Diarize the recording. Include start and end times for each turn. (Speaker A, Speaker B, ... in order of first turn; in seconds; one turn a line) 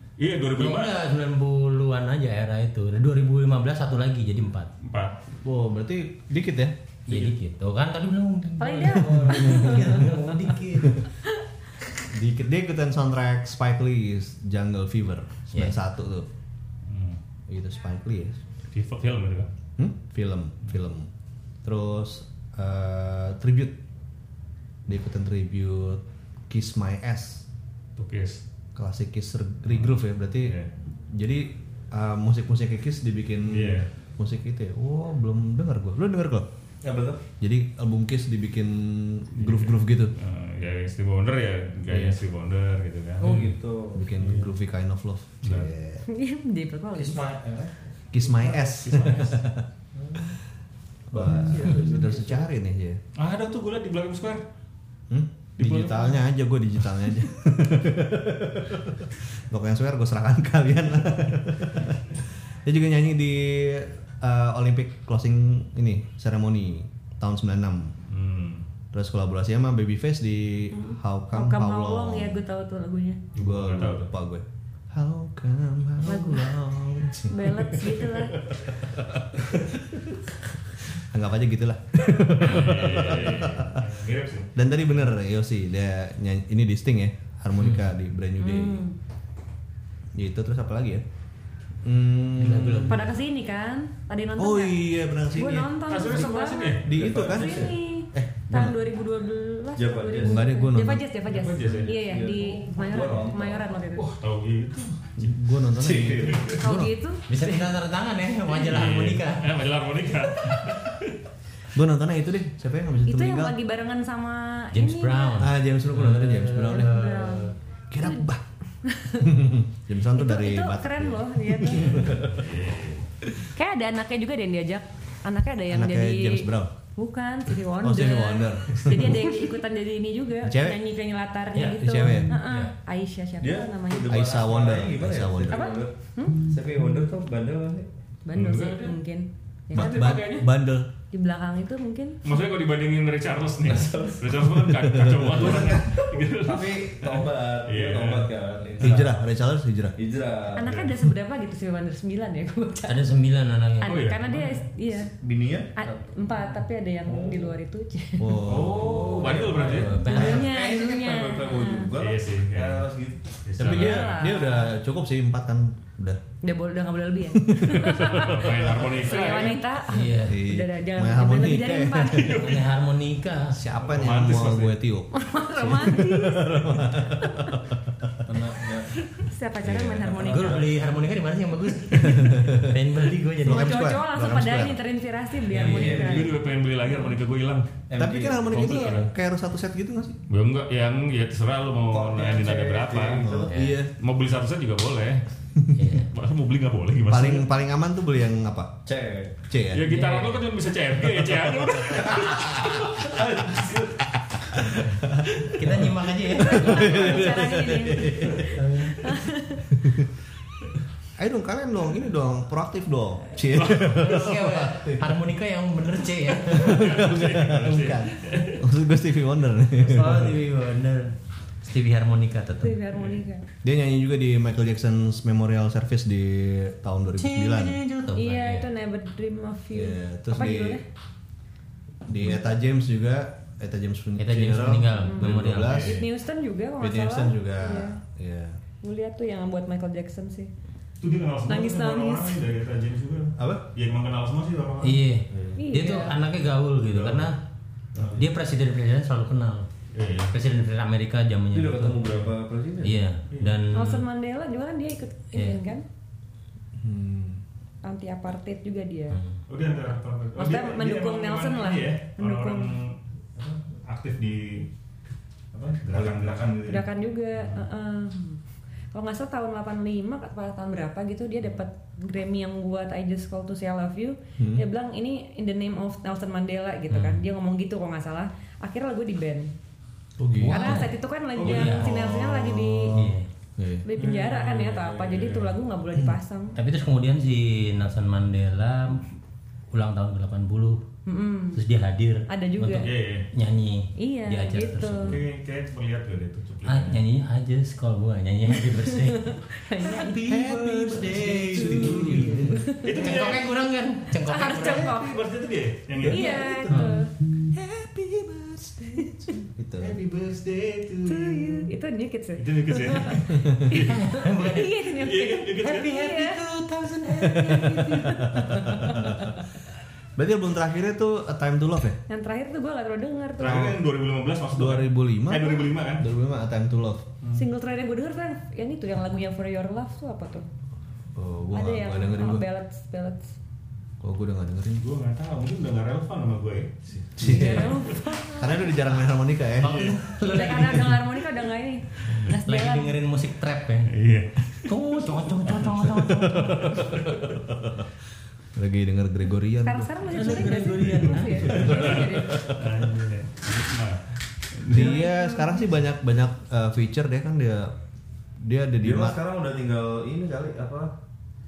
Speaker A: 0.2-1.0
Speaker B: 0.5-4.7
Speaker A: 4.8-5.2
Speaker C: 5.4-6.7
Speaker B: 7.1-11.1
Speaker D: 8.6-10.2
Speaker C: 9.3-10.1
Speaker C: 12.1-16.3
Speaker A: 16.9-17.2
Speaker C: 17.5-18.4
Speaker A: 18.7-19.5
Speaker C: 19.8-21.1
Speaker C: 21.6-23.8
Speaker C: 24.9-27.5
Speaker A: 28.0-28.4
Speaker C: 28.8-30.6
Speaker A: 29.7-30.7
Speaker C: 31.1-36.5
Speaker A: 33.5-33.9
Speaker E: 36.8-37.2
Speaker C: 37.4-40.1
Speaker A: 39.4-43.5
Speaker C: 41.9-42.2
Speaker E: 43.2-44.1
Speaker C: 43.3-46.1
Speaker A: 44.2-44.5
Speaker A: 45.4-45.7
Speaker D: 46.1-47.2
Speaker E: 46.9-48.8
Speaker C: 48.1-49.6
Speaker A: 48.8-49.4
Speaker E: 49.9-50.4
Speaker C: 51.1-53.0
Speaker E: 51.1-52.5
Speaker A: 53.2-54.4
Speaker C: 55.1-67.9
Speaker A: 55.6-56.2
Speaker A: 68.1-68.6
Speaker C: 68.9-72.4
Speaker D: 70.7-73.2
Speaker A: 73.4-74.1
Speaker C: 73.4-78.0
Speaker D: 76.0-76.6
Speaker D: 77.3-78.4
Speaker C: 78.8-79.9
Speaker C: 80.9-83.9
Speaker A: 82.4-84.5
Speaker C: 84.5-88.9
Speaker B: 87.6-87.8
Speaker D: 88.4-89.0
Speaker C: 90.2-91.0
Speaker C: 91.8-93.1
Speaker B: 92.4-93.1
Speaker D: 92.9-104.1
Speaker C: 94.4-95.7
Speaker A: 95.9-97.0
Speaker C: 96.8-98.8
Speaker E: 96.9-97.8
Speaker E: 99.8-100.5
Speaker C: 100.2-101.1
Speaker A: 101.3-102.0
Speaker E: 101.5-103.9
Speaker A: 104.0-105.3
Speaker C: 105.2-106.9
Speaker E: 105.8-106.6
Speaker A: 106.2-106.6
Speaker D: 106.6-107.2
Speaker B: 107.3-109.5
Speaker A: 108.6-111.2
Speaker C: 111.7-113.5
Speaker D: 113.1-115.5
Speaker B: 114.7-117.5
Speaker C: 115.4-117.0
Speaker D: 116.7-118.2
Speaker C: 117.9-118.4
Speaker D: 118.8-119.3
Speaker C: 119.2-122.5
Speaker D: 120.1-122.0
Speaker A: 121.9-123.1
Speaker D: 123.5-134.2
Speaker C: 125.7-126.7
Speaker C: 127.8-129.3
Speaker C: 130.4-130.8
Speaker B: 131.5-132.7
Speaker C: 131.8-132.3
Speaker E: 133.4-137.9
Speaker C: 134.1-135.7
Speaker D: 135.5-136.5
Speaker D: 138.3-140.2
Speaker A: 138.3-139.0
Speaker A: 139.7-140.5
Speaker C: 139.7-140.9
Speaker D: 141.1-142.3
Speaker A: 142.2-149.1
Speaker E: 143.7-144.3
Speaker C: 144.7-146.0
Speaker E: 145.3-149.2
Speaker C: 148.8-150.0
Speaker E: 150.0-150.9
Speaker D: 150.5-153.1
Speaker B: 152.9-154.1
Speaker D: 153.8-155.1
Speaker A: 153.8-154.7
Speaker E: 155.2-156.4
Speaker D: 155.8-158.5
Speaker E: 157.0-157.6
Speaker C: 158.2-159.4
Speaker A: 158.4-160.0
Speaker E: 158.7-163.7
Speaker B: 159.6-160.5
Speaker D: 160.0-161.9
Speaker A: 161.9-162.9
Speaker A: 163.4-164.3
Speaker C: 163.6-166.2
Speaker D: 163.7-164.7
Speaker D: 166.4-172.5
Speaker C: 167.3-168.9
Speaker A: 167.7-169.7
Speaker B: 169.9-170.5
Speaker C: 170.3-172.4
Speaker A: 172.1-172.7
Speaker B: 172.2-173.6
Speaker C: 173.5-178.2
Speaker A: 173.8-174.8
Speaker D: 175.1-177.5
Speaker E: 178.2-179.1
Speaker D: 179.1-180.7
Speaker E: 179.6-180.9
Speaker B: 180.2-184.0
Speaker C: 181.9-182.8
Speaker C: 183.4-184.8
Speaker D: 183.5-186.4
Speaker E: 185.5-186.4
Speaker B: 185.5-186.0
Speaker A: 185.8-187.7
Speaker E: 187.9-188.8
Speaker C: 188.0-190.2
Speaker A: 188.5-189.1
Speaker D: 188.6-189.0
Speaker A: 190.3-193.2
Speaker E: 191.9-193.5
Speaker C: 193.2-193.9
Speaker B: 193.5-193.8
Speaker A: 194.0-195.2
Speaker B: 195.8-196.1
Speaker A: 196.1-197.5
Speaker C: 197.1-198.8
Speaker E: 198.9-199.3
Speaker C: 199.5-199.9
Speaker A: 199.7-203.0
Speaker B: 199.9-200.4
Speaker C: 201.9-203.1
Speaker E: 203.0-204.1
Speaker C: 204.6-205.9
Speaker B: 205.5-207.2
Speaker D: 206.4-209.7
Speaker C: 206.4-208.7
Speaker C: 209.8-210.1
Speaker C: 211.2-215.1
Speaker A: 213.5-214.3
Speaker B: 213.8-217.0
Speaker C: 216.5-220.4
Speaker A: 216.6-218.7
Speaker B: 219.8-222.8
Speaker D: 222.6-223.4
Speaker C: 223.6-227.8
Speaker B: 227.2-228.7
Speaker D: 228.1-230.8
Speaker C: 229.7-230.8
Speaker C: 232.1-236.0
Speaker B: 234.2-235.9
Speaker D: 235.1-238.0
Speaker A: 235.6-236.1
Speaker C: 236.8-238.6
Speaker D: 238.8-240.5
Speaker A: 241.0-245.4
Speaker D: 241.4-242.4
Speaker E: 243.4-243.6
Speaker B: 244.8-247.4
Speaker E: 245.3-245.6
Speaker D: 245.6-246.2
Speaker A: 246.9-247.3
Speaker A: 247.9-248.2
Speaker B: 248.2-252.2
Speaker A: 249.9-250.3
Speaker E: 251.5-253.0
Speaker B: 252.8-254.1
Speaker A: 253.3-253.6
Speaker D: 253.7-255.8
Speaker B: 255.3-255.6
Speaker C: 256.8-257.4
Speaker D: 257.8-259.2
Speaker B: 259.1-259.4
Speaker A: 259.5-264.7
Speaker D: 260.4-262.8
Speaker E: 265.5-266.6
Speaker A: 265.7-266.9
Speaker D: 266.6-268.4
Speaker D: 268.9-279.5
Speaker C: 274.4-274.6
Speaker B: 276.9-277.2
Speaker C: 280.2-280.9
Speaker B: 280.4-281.9
Speaker D: 280.5-283.1
Speaker A: 281.4-282.1
Speaker C: 281.6-282.9
Speaker B: 282.9-283.3
Speaker C: 283.6-283.9
Speaker D: 283.8-286.6
Speaker A: 284.0-285.6
Speaker B: 286.6-289.1
Speaker B: 289.7-290.8
Speaker D: 291.1-291.6
Speaker B: 291.5-295.2
Speaker D: 292.3-292.9
Speaker A: 292.8-293.3
Speaker D: 294.0-295.2
Speaker A: 295.1-297.0
Speaker B: 296.6-305.0
Speaker D: 298.6-300.3
Speaker C: 300.3-302.6
Speaker D: 301.6-303.2
Speaker A: 302.8-303.5
Speaker D: 304.2-305.2
Speaker A: 304.6-306.8
Speaker D: 306.1-307.1
Speaker E: 306.1-306.8
Speaker C: 307.5-310.0
Speaker A: 309.8-311.7
Speaker D: 311.1-316.4
Speaker A: 312.4-313.3
Speaker C: 313.3-313.8
Speaker B: 313.7-314.9
Speaker A: 315.0-316.1
Speaker B: 315.6-318.1
Speaker C: 317.2-319.2
Speaker D: 317.4-319.4
Speaker B: 318.7-319.0
Speaker C: 320.2-322.0
Speaker D: 322.1-323.7
Speaker A: 323.4-326.1
Speaker C: 323.4-323.8
Speaker C: 324.5-327.0
Speaker A: 327.2-327.5
Speaker D: 327.4-330.5
Speaker C: 331.1-332.5
Speaker D: 331.5-333.4
Speaker C: 334.0-334.8
Speaker A: 334.8-337.8
Speaker C: 337.2-339.9
Speaker D: 337.2-338.8
Speaker B: 339.6-341.0
Speaker A: 339.6-340.4
Speaker D: 340.2-343.0
Speaker A: 342.1-342.3
Speaker B: 342.4-343.9
Speaker A: 343.9-344.7
Speaker B: 344.6-346.8
Speaker C: 345.9-347.4
Speaker A: 346.7-347.4
Speaker C: 348.6-350.5
Speaker D: 349.6-352.6
Speaker B: 350.1-351.8
Speaker A: 351.4-355.0
Speaker C: 351.4-352.8
Speaker C: 354.7-357.8
Speaker D: 354.7-355.6
Speaker C: 358.4-359.2
Speaker E: 358.8-360.9